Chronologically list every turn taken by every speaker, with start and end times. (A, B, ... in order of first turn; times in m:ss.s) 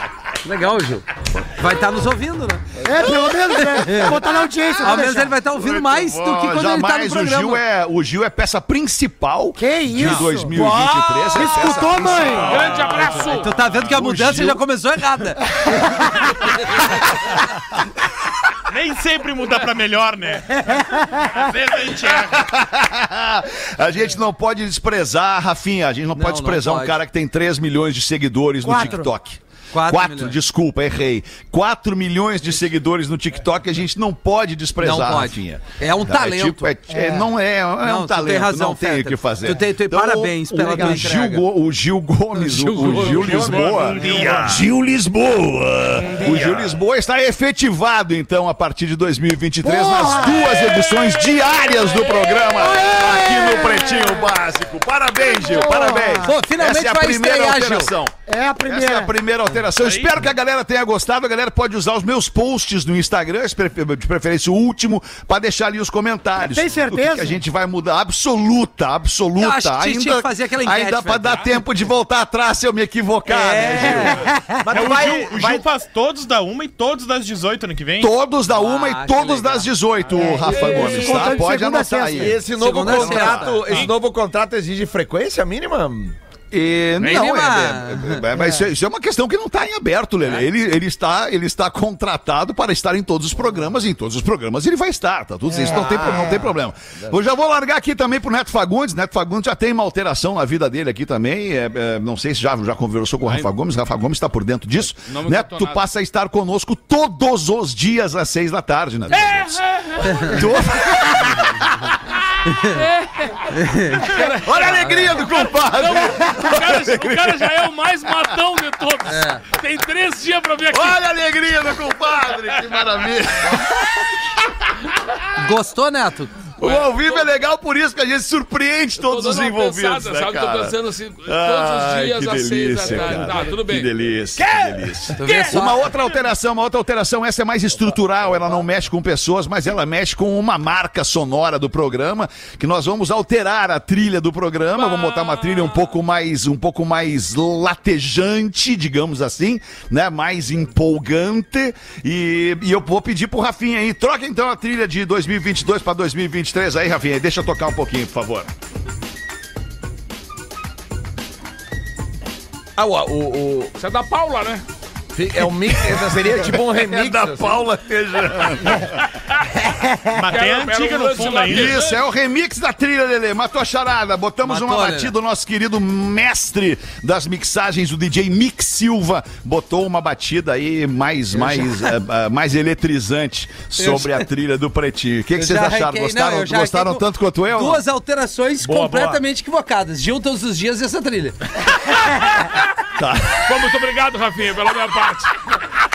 0:00.4-0:02.6 A
0:02.8-0:05.3 B
0:03.6-0:04.3 A
0:04.8-0:07.6 A
0:04.9-0:13.0 C
0:09.6-0:10.6 B
0:10.0-0:11.3 A
0:11.3-0:12.7 B
0:12.4-0:13.3 D
0:12.4-0:13.5 E
0:13.2-0:15.5 A
0:13.8-0:14.6 C
0:18.7-0:22.5 D
0:22.2-1:14.3 C
0:26.2-0:27.0 A
0:28.6-0:29.1 B
0:29.7-0:30.4 A
0:34.8-0:36.7 A
0:36.9-0:37.3 B
0:37.8-0:41.4 A
0:40.7-0:41.0 B
0:42.6-0:44.5 E
0:42.6-0:43.6 A
0:43.2-0:44.6 D
0:46.0-0:46.7 B
0:49.6-0:50.8 B
0:52.4-0:54.3 B
0:55.2-0:56.4 B
0:56.2-0:57.9 A
0:58.3-0:59.1 B
0:59.8-1:00.2 D
1:06.4-1:07.4 B
1:09.4-1:11.6 A
1:13.3-1:15.6 A
1:14.0-1:14.6 B
1:14.7-1:18.1 D
1:14.9-1:15.4 F
1:18.0-1:22.4 C
1:18.5-1:19.7 A
1:20.1-1:22.4 B
1:20.2-1:21.5 A
1:22.1-1:26.2 F
1:22.5-1:23.9 A
1:23.7-1:23.9 D
1:26.5-1:51.9 C
1:27.0-1:28.2 A
1:35.5-1:36.5 B
1:45.1-1:45.8 E
1:49.1-1:50.4 E
1:52.5-2:01.0 E
1:52.5-1:52.8 A
1:53.6-1:54.1 A
1:54.1-1:57.6 C
1:59.1-1:59.4 A
2:00.7-2:04.7 C
2:05.4-2:06.4 A
2:06.6-2:38.5 C
2:06.6-2:07.3 E
2:09.0-2:14.0 E
2:12.9-2:13.4 F
2:15.2-2:15.8 A
2:15.2-2:15.5 E
2:24.8-2:25.9 E
2:42.8-2:43.7 F
2:43.8-2:44.6 E
2:45.1-2:47.6 F
2:45.7-2:49.0 C
2:48.8-2:49.6 E
2:50.1-2:51.8 D
2:50.3-2:52.0 E
2:51.5-3:07.8 C
2:54.4-2:55.1 A
3:03.8-3:04.2 A
3:05.4-3:11.4 A
3:13.0-3:13.5 C
3:13.4-3:15.3 E